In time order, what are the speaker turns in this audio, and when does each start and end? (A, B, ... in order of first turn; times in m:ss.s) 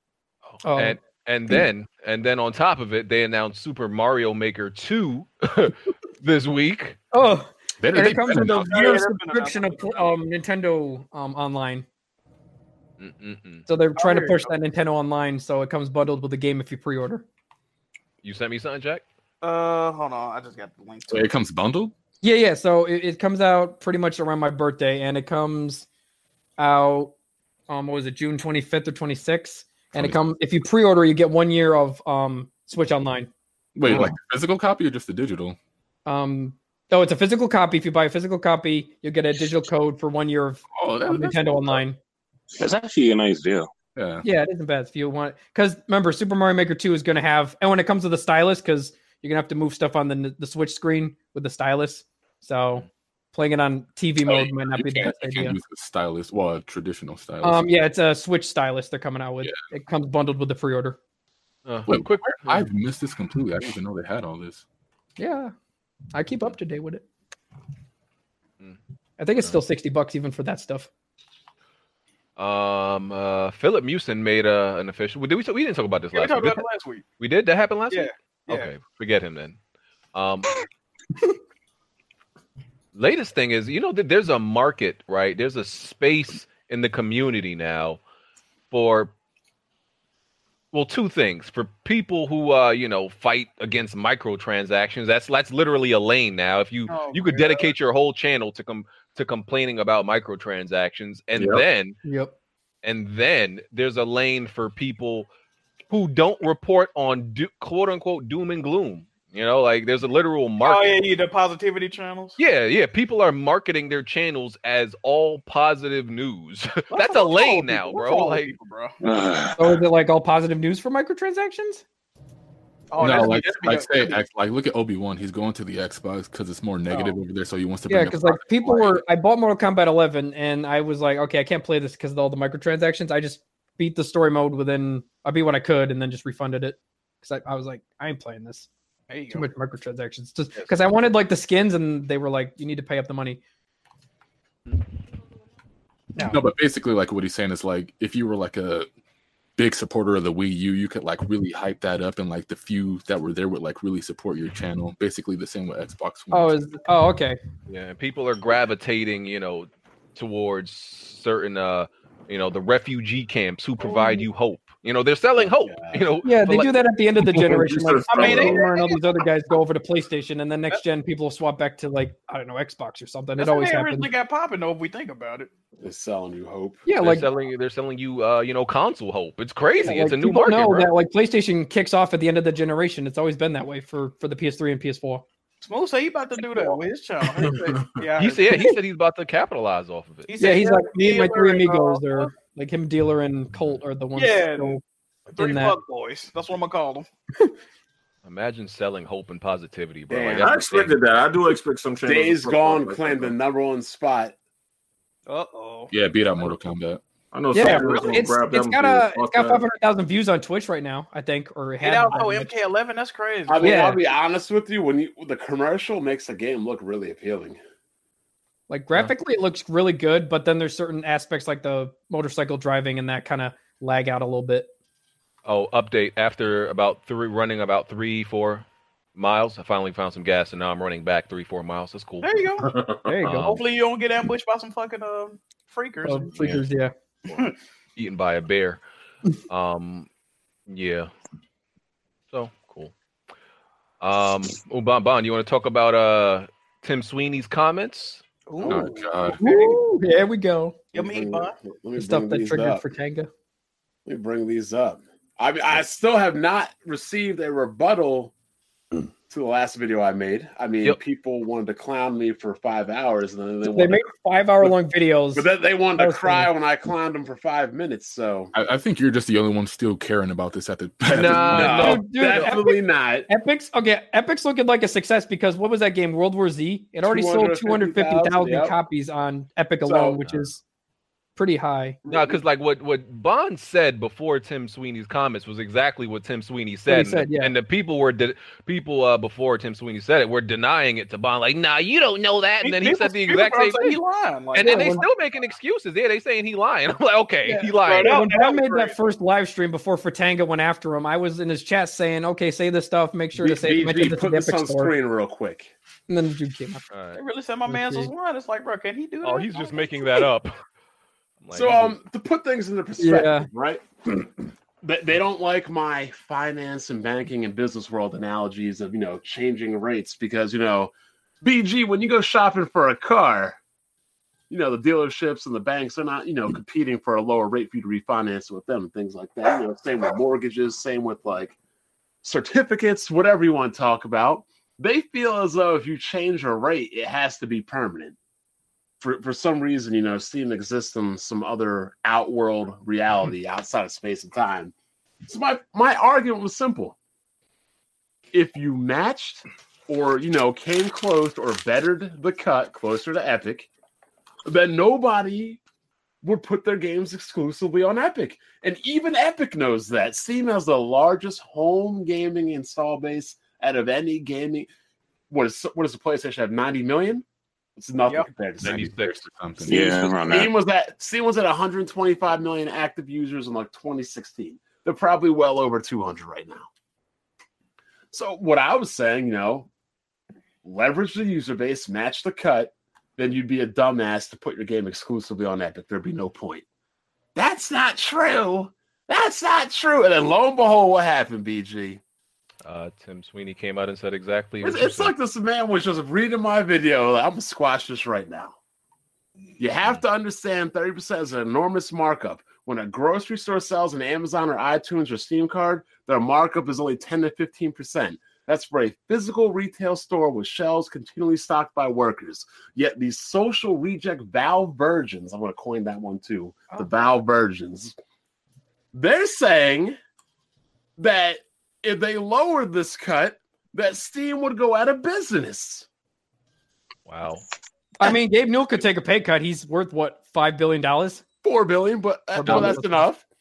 0:00.5-0:07.0 A
0:00.6-0:01.0 B
0:07.1-0:11.8 B
0:07.8-0:09.1 C
0:08.2-0:10.2 D
0:13.0-0:13.6 A
0:13.7-0:17.2 B
0:14.0-0:14.5 D
0:18.2-0:19.0 A
0:19.4-0:21.3 D
0:21.1-0:21.9 C
0:22.2-0:25.9 B
0:26.6-0:27.1 B
0:27.7-0:33.3 B
0:33.8-0:35.6 C
0:36.1-0:42.0 B
0:40.7-0:41.8 C
0:42.6-0:43.7 E
0:44.0-0:44.2 C
0:44.2-0:55.6 B
0:54.3-0:57.7 C
0:57.4-1:01.0 B
1:01.7-1:02.7 A
1:01.9-1:04.6 C
1:05.2-1:05.5 B
1:06.1-1:07.0 B
1:09.2-1:10.9 B
1:12.4-1:16.6 A
1:16.1-1:17.0 D
1:17.2-1:19.6 A
1:17.9-1:18.7 D
1:20.1-1:20.5 A
1:23.0-1:28.0 A
1:28.7-1:29.1 A
1:30.7-1:42.0 A
1:36.9-1:37.7 D
1:41.4-1:41.6 F
1:42.0-1:42.3 B
1:42.8-1:45.3 A
1:45.9-1:51.0 A
1:50.6-1:52.4 D
1:52.4-1:58.6 A
1:56.9-1:59.0 D
1:59.0-1:59.8 E
1:59.6-2:01.8 B
2:02.9-2:04.2 D
2:03.0-2:09.0 C
2:06.9-2:07.2 D
2:07.9-2:18.7 B
2:19.1-2:19.5 D
2:19.3-2:23.4 B
2:26.2-2:28.9 C
2:29.6-2:36.6 C
2:36.3-2:37.4 B
2:37.7-2:46.8 A
2:43.9-2:44.2 D
2:45.4-2:46.1 G
2:46.2-2:54.1 B
2:47.4-2:48.6 F
2:48.1-2:49.0 D
2:53.4-2:55.5 D
2:55.8-2:56.8 G
2:56.9-2:57.3 B
2:57.0-3:00.9 A
2:59.8-3:05.2 B
3:05.6-3:08.6 D
3:08.2-3:10.3 A
3:10.3-3:12.3 D
3:10.4-3:14.8 B
3:14.2-3:17.1 D
3:15.4-3:15.8 B
3:18.2-3:21.0 A
3:20.1-3:23.4 F
3:20.2-3:20.5 G
3:22.1-3:24.4 G
3:25.3-3:25.9 D
3:25.9-3:27.0 C
3:27.3-3:29.6 F
3:27.5-3:32.5 B
3:31.8-3:33.9 D
3:33.5-3:37.6 G
3:33.6-3:34.0 B
3:38.7-3:44.7 B
3:45.4-3:52.4 A
3:52.2-3:52.7 D
3:52.7-3:53.0 F
3:53.1-3:53.5 B
3:53.2-3:53.6 A
3:53.4-3:56.3 D
3:56.0-3:56.9 B
3:56.4-3:56.6 A
3:57.3-3:58.8 A
3:59.5-4:00.1 A
4:00.7-4:01.1 A
4:02.3-4:02.9 A
4:04.0-4:08.2 A
4:08.5-4:09.8 D
4:08.6-4:09.4 C
4:09.4-4:10.9 B
4:10.9-4:11.6 D
4:10.9-4:12.8 G
4:12.0-4:13.3 B
4:14.1-4:18.3 G
4:19.3-4:24.7 G
4:23.6-4:26.5 B
4:25.3-4:28.5 G
4:28.5-4:32.0 C
4:31.1-4:33.3 G
4:31.1-4:32.5 A
4:31.7-4:40.6 B
4:37.0-4:38.7 G
4:39.8-4:40.2 G
4:41.4-4:42.0 B
4:42.0-4:42.4 G
4:42.1-4:54.0 A
4:46.9-4:47.5 B
4:52.6-4:55.0 D
4:54.5-4:58.3 A
4:54.6-4:55.0 B
4:57.5-4:59.0 D
4:58.1-5:04.9 B
5:03.4-5:05.7 G
5:06.1-5:06.9 B
5:06.9-5:07.2 A
5:07.1-5:10.1 D
5:07.7-5:08.1 B
5:09.2-5:10.6 A
5:11.4-5:12.0 A
5:11.5-5:14.3 G
5:13.0-5:13.5 B
5:14.8-5:23.6 G
5:24.5-5:31.6 G
5:32.2-5:38.2 G
5:39.0-5:44.7 G
5:45.3-5:47.0 G
5:48.3-5:53.7 G
5:54.5-5:55.6 G
5:56.2-6:04.7 G
6:05.3-6:07.2 G
6:07.8-6:09.0 G
6:08.6-6:09.2 A
6:08.6-6:10.2 C
6:09.6-6:10.5 E
6:10.3-6:16.7 G
6:18.1-6:19.7 G
6:20.6-6:26.6 G
6:27.4-6:32.0 G
6:32.6-6:35.1 A
6:34.6-6:38.6 G
6:39.6-6:58.0 G
6:58.9-7:00.0 G
7:01.0-7:05.9 G
7:07.1-7:07.4 A
7:08.0-7:11.2 B
7:11.4-7:13.2 G
7:12.4-7:13.0 B